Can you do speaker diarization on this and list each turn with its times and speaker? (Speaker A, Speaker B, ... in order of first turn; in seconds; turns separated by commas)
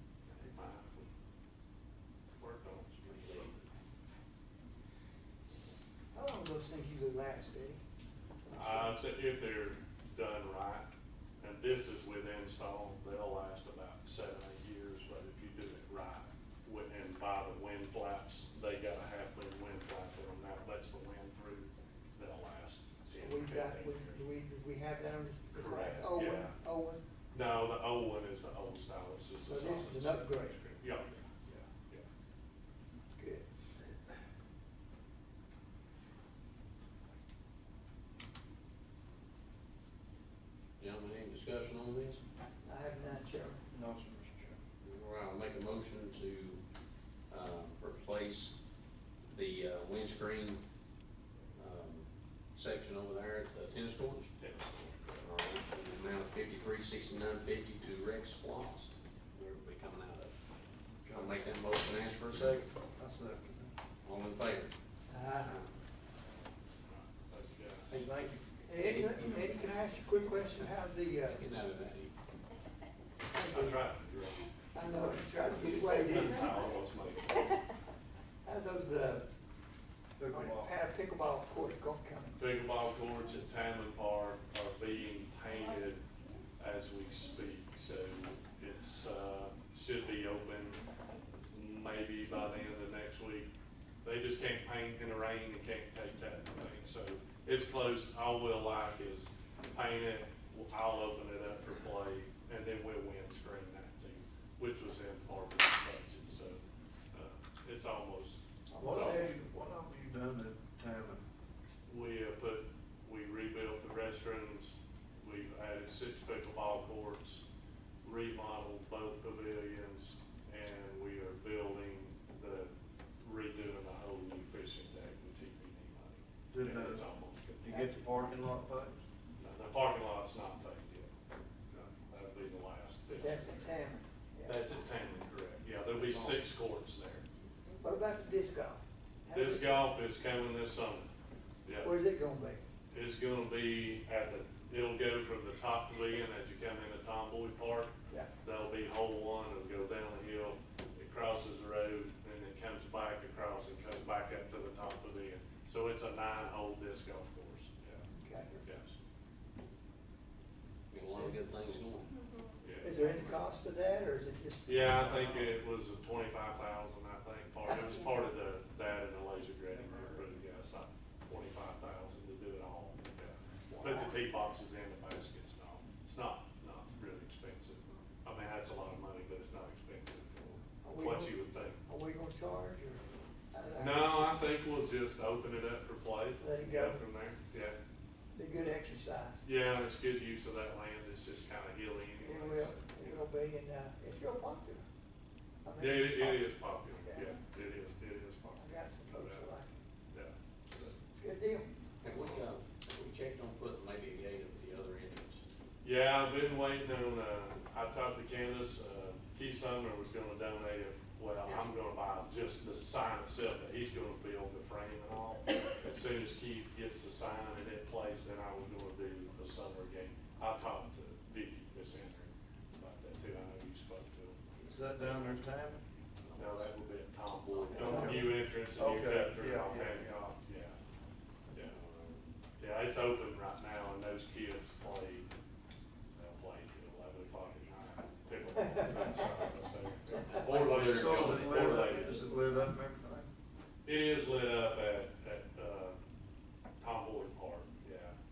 Speaker A: 0.3-1.1, Speaker A: 2.3-3.5, Speaker B: 2.9-3.6, Speaker C: 6.1-7.8, Speaker C: 8.4-9.0, Speaker A: 8.5-10.9, Speaker A: 11.4-24.2, Speaker C: 23.1-27.0, Speaker A: 25.5-26.6, Speaker A: 27.3-32.0, Speaker C: 29.4-30.6, Speaker C: 33.1-34.2, Speaker B: 40.8-42.2, Speaker C: 42.6-43.6, Speaker D: 43.7-44.6, Speaker B: 44.8-46.6, Speaker B: 47.3-48.5, Speaker B: 49.2-50.6, Speaker B: 51.5-54.3, Speaker A: 54.4-55.3, Speaker B: 55.2-60.3, Speaker D: 61.0-61.5, Speaker B: 61.1-62.7, Speaker D: 62.9-63.7, Speaker B: 64.0-64.7, Speaker C: 65.1-65.7, Speaker A: 66.8-68.0, Speaker D: 67.9-68.5, Speaker C: 68.6-71.7, Speaker B: 71.3-72.2, Speaker C: 73.2-73.9, Speaker A: 73.5-74.5, Speaker C: 74.7-76.8, Speaker A: 75.2-77.6, Speaker C: 78.4-79.3, Speaker D: 80.2-80.7, Speaker C: 80.3-82.4, Speaker A: 82.4-86.0, Speaker A: 86.6-90.8, Speaker A: 91.5-93.5, Speaker A: 94.0-106.6, Speaker A: 107.1-109.3, Speaker C: 108.7-109.4, Speaker D: 108.8-111.2, Speaker A: 111.9-117.4, Speaker A: 118.0-127.9, Speaker D: 126.5-127.1, Speaker D: 127.6-129.0, Speaker C: 127.7-128.4, Speaker A: 129.4-131.1, Speaker A: 132.1-133.7, Speaker C: 133.1-134.7, Speaker A: 134.4-137.2, Speaker D: 135.9-136.4, Speaker C: 137.8-139.9, Speaker A: 139.3-141.1, Speaker A: 141.7-141.9, Speaker C: 141.8-142.6, Speaker A: 142.9-158.9, Speaker C: 158.1-158.5, Speaker B: 160.9-162.1, Speaker A: 162.6-163.1, Speaker C: 162.8-165.5, Speaker B: 163.1-163.4, Speaker A: 164.7-181.8, Speaker C: 173.7-174.2, Speaker C: 180.8-184.4, Speaker A: 183.7-187.8, Speaker C: 186.4-187.0, Speaker C: 188.3-189.4, Speaker A: 189.4-193.2, Speaker C: 192.2-194.8, Speaker C: 195.6-197.4, Speaker A: 195.8-199.5, Speaker C: 198.6-199.8, Speaker A: 200.1-201.0, Speaker C: 201.2-201.7, Speaker B: 202.0-205.4, Speaker A: 202.1-202.4, Speaker A: 205.8-225.4, Speaker D: 224.6-225.8, Speaker A: 226.3-230.8, Speaker B: 227.6-227.9, Speaker C: 227.7-228.3, Speaker D: 227.8-230.2, Speaker A: 231.5-231.8, Speaker B: 231.7-232.2, Speaker A: 232.6-235.3, Speaker A: 236.1-241.9, Speaker B: 240.2-242.2, Speaker D: 240.8-243.3, Speaker A: 243.8-245.9, Speaker A: 246.8-248.1